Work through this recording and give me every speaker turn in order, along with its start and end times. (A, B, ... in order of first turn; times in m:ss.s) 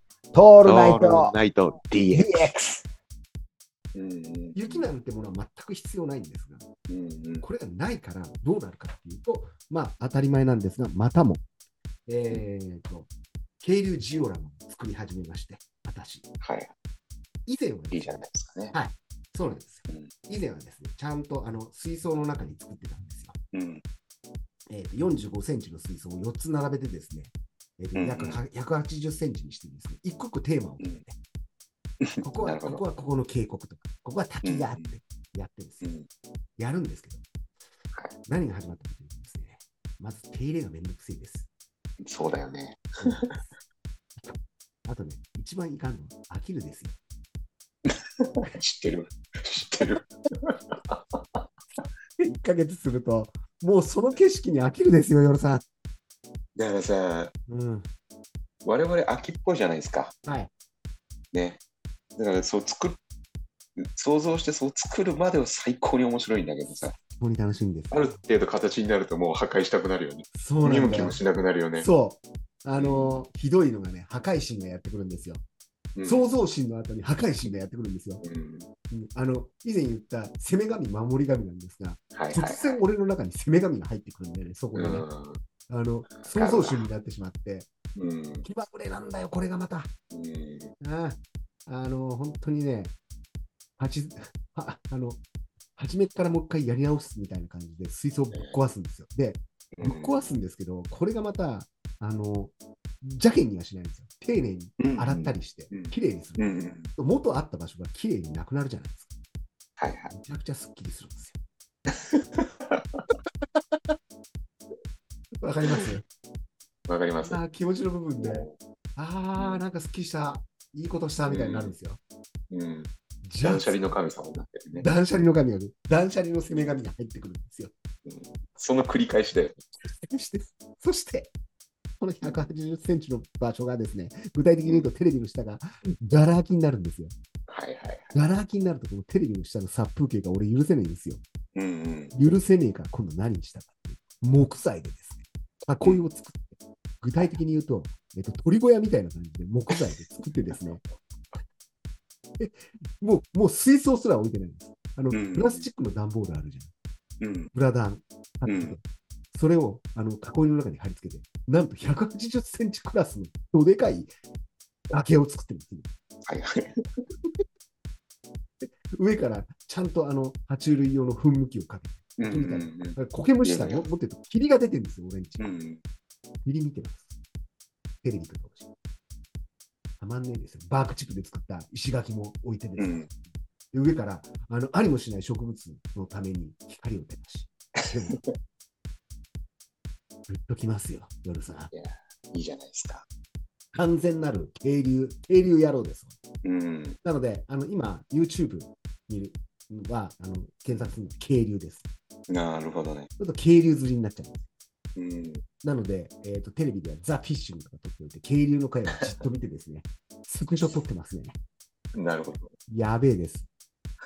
0:00.3-0:01.4 A
0:00.6-0:02.5 B
0:02.1-0:02.8 A
0:03.9-0:04.8 B
0:04.5-0:06.6 A
0:06.9-0:07.4 B
0:07.4-0:11.4 A
0:12.1-0:16.3 A
0:16.4-0:16.7 B
0:17.4-0:23.4 A
0:17.9-0:18.7 B
0:23.5-0:23.8 B
0:24.7-0:31.2 A
0:27.9-0:28.4 B
0:32.0-0:32.8 B
0:32.2-0:35.9 A
0:34.4-0:34.8 B
0:35.8-0:36.1 B
0:36.6-0:37.2 A
0:38.2-0:41.5 A
0:42.0-0:43.4 B
0:43.0-0:43.3 A
0:44.2-0:47.0 A
0:48.4-0:51.0 B
0:52.2-0:55.6 A
0:56.6-0:57.3 B
0:57.5-0:57.9 A
0:58.6-1:00.1 B
1:00.2-1:00.5 A
1:01.3-1:01.6 B
1:02.2-1:03.0 B
1:04.0-1:06.9 B
1:07.0-1:08.2 A
1:07.9-1:11.9 B
1:10.3-1:11.2 A
1:11.8-1:15.4 A
1:12.8-1:13.2 B
1:16.0-1:16.3 B
1:16.0-1:18.2 A
1:18.2-1:18.7 B
1:18.9-1:25.1 A
1:22.1-1:22.8 B
1:24.7-1:25.4 B
1:25.7-1:27.7 A
1:26.2-1:26.9 B
1:28.0-1:28.4 B
1:28.4-1:29.9 A
1:30.1-1:30.7 B
1:30.8-1:32.9 A
1:33.8-1:35.2 A
1:35.8-1:49.1 A
1:39.7-1:40.2 B
1:44.8-1:46.9 B
1:49.8-1:50.1 B
1:50.1-1:51.4 A
1:52.1-1:53.0 B
1:55.4-1:56.0 A
1:56.9-1:57.4 B
1:57.2-2:02.0 A
1:58.2-1:58.6 B
1:59.3-1:59.6 B
2:01.2-2:01.7 B
2:02.5-2:02.9 B
2:03.2-2:04.0 A
2:03.4-2:04.9 B
2:04.8-2:07.7 A
2:08.0-2:09.6 B
2:09.8-2:11.3 A
2:12.0-2:17.1 A
2:12.2-2:12.5 B
2:17.5-2:18.1 B
2:18.1-2:21.2 A
2:21.6-2:22.1 B
2:22.1-2:30.8 A
2:29.7-2:30.0 B
2:32.4-2:36.7 A
2:35.1-2:35.7 B
2:37.2-2:37.5 B
2:37.5-2:38.8 A
2:38.4-2:38.8 B
2:39.3-2:44.1 A
2:44.9-2:45.9 A
2:46.2-2:47.0 B
2:48.6-2:55.5 A
2:52.2-2:53.9 B
2:55.4-2:55.8 B
2:56.4-2:57.1 A
2:58.0-2:58.7 A
3:00.0-3:03.1 A
3:02.8-3:03.1 B
3:03.7-3:08.2 A
3:10.3-3:11.7 A
3:11.7-3:13.0 B
3:13.7-3:16.1 A
3:16.4-3:17.0 B
3:17.0-3:21.9 A
3:22.3-3:23.1 B
3:23.2-3:24.4 A
3:25.0-3:25.4 B
3:25.6-3:31.4 A
3:31.9-3:32.5 B
3:32.7-3:33.5 A